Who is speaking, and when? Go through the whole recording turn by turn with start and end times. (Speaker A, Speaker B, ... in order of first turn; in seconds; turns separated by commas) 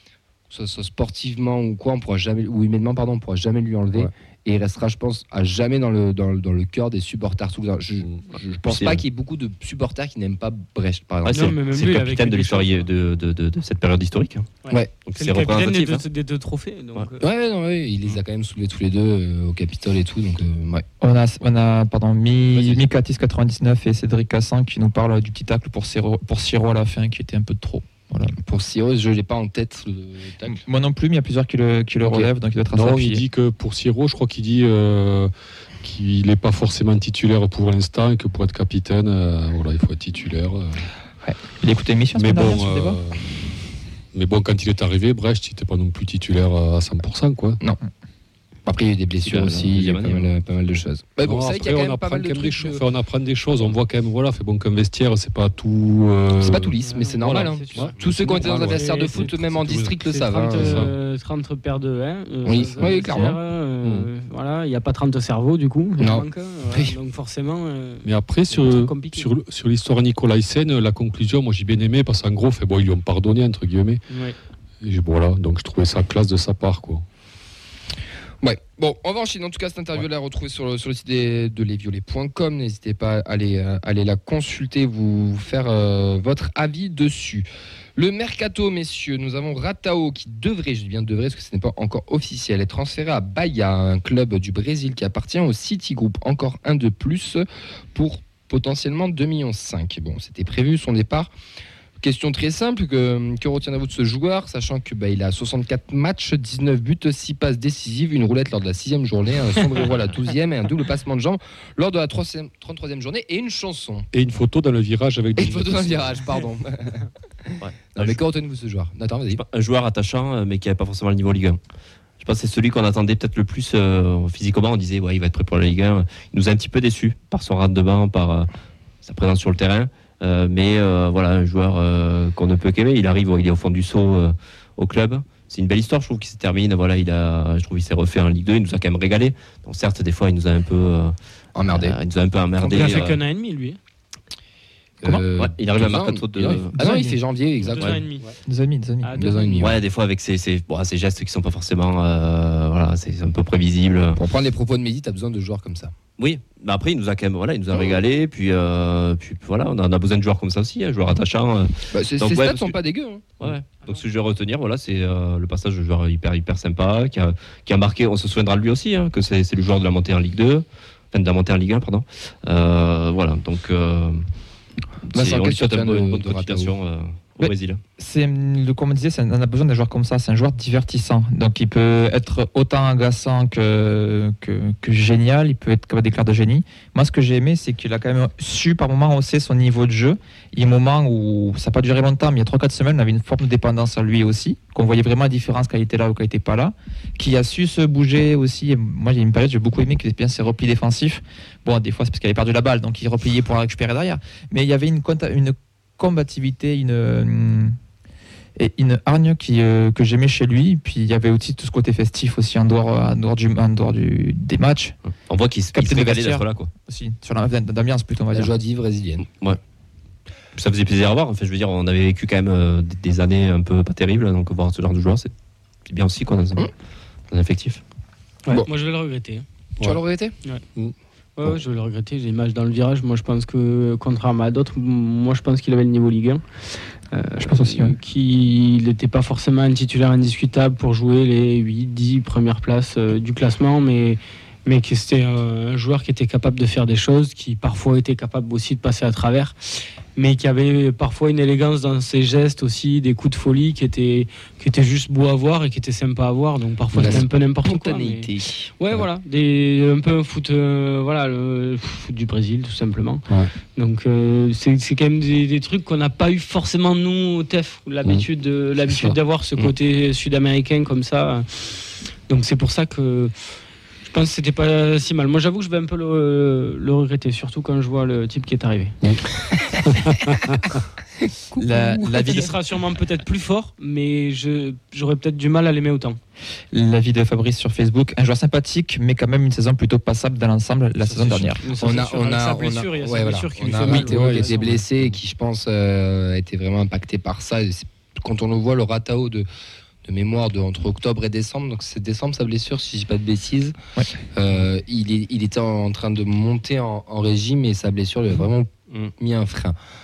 Speaker A: 0.5-11.5, Speaker B: 8.7-9.0, Speaker B: 11.2-14.5, Speaker C: 11.3-12.9, Speaker C: 14.6-17.2, Speaker B: 15.0-16.0, Speaker A: 17.2-20.8, Speaker D: 21.0-28.3, Speaker B: 22.5-22.9, Speaker A: 28.4-30.6, Speaker D: 30.4-33.2, Speaker A: 32.0-32.3, Speaker E: 32.7-35.3, Speaker E: 35.8-40.8, Speaker D: 41.2-43.0, Speaker E: 42.1-43.2, Speaker E: 44.1-47.6, Speaker A: 48.6-52.8, Speaker B: 49.2-50.3, Speaker E: 51.2-60.9, Speaker A: 56.3-60.8, Speaker C: 56.8-58.0, Speaker C: 58.7-69.3, Speaker A: 62.4-63.4, Speaker E: 62.6-63.0, Speaker E: 63.8-64.1, Speaker A: 66.0-66.9, Speaker E: 68.0-74.0, Speaker C: 74.1-74.3, Speaker E: 74.8-77.0, Speaker A: 78.4-101.3, Speaker A: 102.0-114.1, Speaker E: 114.1-116.2, Speaker A: 115.3-119.4, Speaker B: 117.6-118.2, Speaker B: 119.3-121.6, Speaker B: 122.2-128.5, Speaker B: 129.0-141.1, Speaker A: 141.5-142.0, Speaker B: 141.7-143.2, Speaker C: 142.6-143.8, Speaker A: 145.0-148.1, Speaker B: 145.4-146.8, Speaker D: 146.7-147.2, Speaker C: 147.6-148.3, Speaker D: 148.4-149.2, Speaker C: 149.0-149.7, Speaker A: 149.2-149.8, Speaker B: 149.6-154.2, Speaker A: 154.1-155.9, Speaker B: 156.2-162.7, Speaker A: 157.7-158.0, Speaker A: 161.9-163.5, Speaker B: 163.4-174.2, Speaker B: 175.1-177.8, Speaker A: 175.1-176.8, Speaker D: 177.4-207.7, Speaker D: 208.6-214.9, Speaker B: 215.3-216.7, Speaker D: 215.7-218.5, Speaker A: 218.3-219.2, Speaker B: 219.2-219.6, Speaker B: 220.6-225.3, Speaker B: 225.8-226.7, Speaker B: 227.3-227.8, Speaker C: 228.5-229.4, Speaker A: 229.8-230.3, Speaker E: 230.7-231.6, Speaker C: 231.4-236.4, Speaker C: 237.1-249.5, Speaker D: 237.4-237.9, Speaker C: 250.1-273.3, Speaker A: 256.9-258.7, Speaker E: 257.0-257.2, Speaker E: 268.9-269.2, Speaker C: 274.0-279.0, Speaker E: 279.8-280.8, Speaker D: 281.6-282.5, Speaker C: 281.9-286.2, Speaker D: 286.7-291.6, Speaker E: 291.1-291.4, Speaker C: 291.5-294.8, Speaker A: 291.8-299.5, Speaker E: 293.7-294.8, Speaker A: 300.0-303.7, Speaker A: 304.3-309.8